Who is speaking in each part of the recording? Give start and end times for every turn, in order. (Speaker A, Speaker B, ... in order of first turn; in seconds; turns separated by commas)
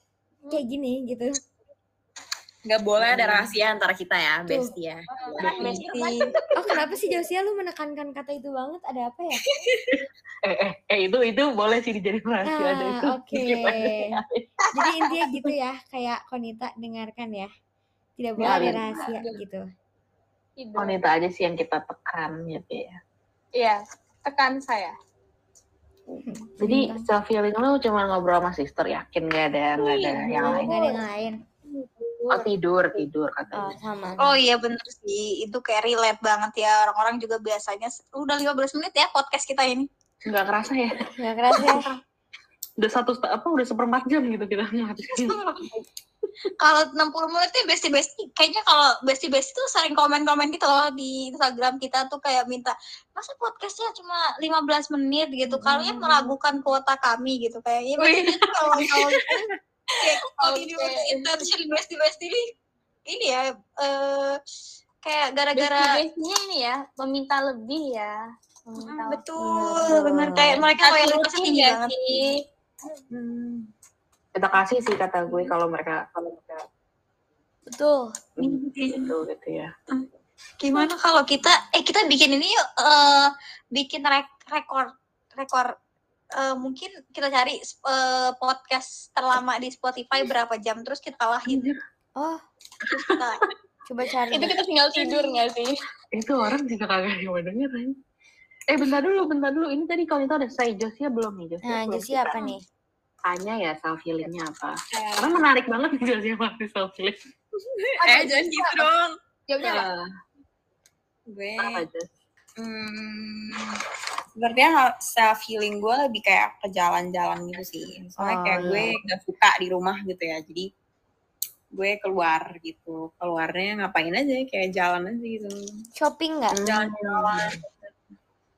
Speaker A: 0.5-1.4, Speaker B: 2.7-6.0, Speaker C: 3.1-3.4, Speaker A: 4.5-4.7, Speaker D: 5.2-6.3, Speaker C: 5.4-5.9, Speaker A: 6.6-9.4, Speaker B: 9.6-9.9, Speaker C: 10.4-14.4, Speaker A: 12.5-14.2, Speaker A: 14.8-17.5, Speaker A: 18.2-19.6, Speaker C: 18.4-18.9, Speaker E: 18.5-19.4, Speaker E: 20.6-21.1, Speaker C: 20.8-23.0, Speaker E: 23.6-24.9, Speaker A: 26.2-27.1, Speaker C: 26.6-30.9, Speaker A: 29.9-31.4, Speaker E: 30.4-30.8, Speaker E: 31.7-32.5, Speaker C: 32.3-33.8, Speaker A: 33.5-34.4, Speaker D: 34.2-39.9, Speaker C: 40.2-41.0, Speaker A: 41.2-41.9, Speaker C: 41.5-41.9, Speaker C: 42.8-45.7, Speaker D: 46.6-59.4, Speaker A: 55.6-56.3, Speaker D: 60.0-62.4, Speaker E: 60.4-61.3, Speaker D: 63.1-64.4, Speaker D: 65.0-65.9, Speaker E: 65.5-72.4, Speaker D: 68.8-72.1, Speaker C: 73.1-73.7, Speaker C: 74.4-76.6, Speaker A: 77.7-78.1, Speaker C: 78.4-79.7, Speaker D: 78.4-79.1, Speaker D: 80.6-85.7, Speaker D: 86.4-91.8, Speaker C: 91.5-91.8, Speaker D: 92.8-93.4, Speaker C: 93.0-93.3, Speaker A: 93.9-94.6, Speaker E: 94.3-95.7, Speaker B: 95.0-95.3, Speaker C: 96.1-97.9, Speaker C: 98.7-102.5, Speaker A: 101.6-102.6, Speaker C: 103.2-107.2, Speaker B: 104.9-105.5, Speaker B: 107.8-109.2, Speaker E: 108.0-108.9, Speaker E: 109.5-109.9, Speaker C: 109.6-110.0, Speaker B: 111.3-111.8, Speaker C: 111.6-112.1, Speaker B: 112.6-113.8, Speaker B: 114.4-120.7, Speaker A: 118.2-118.8, Speaker C: 118.6-119.0, Speaker B: 121.8-125.6, Speaker A: 126.0-126.6, Speaker C: 126.5-127.6, Speaker B: 126.6-127.7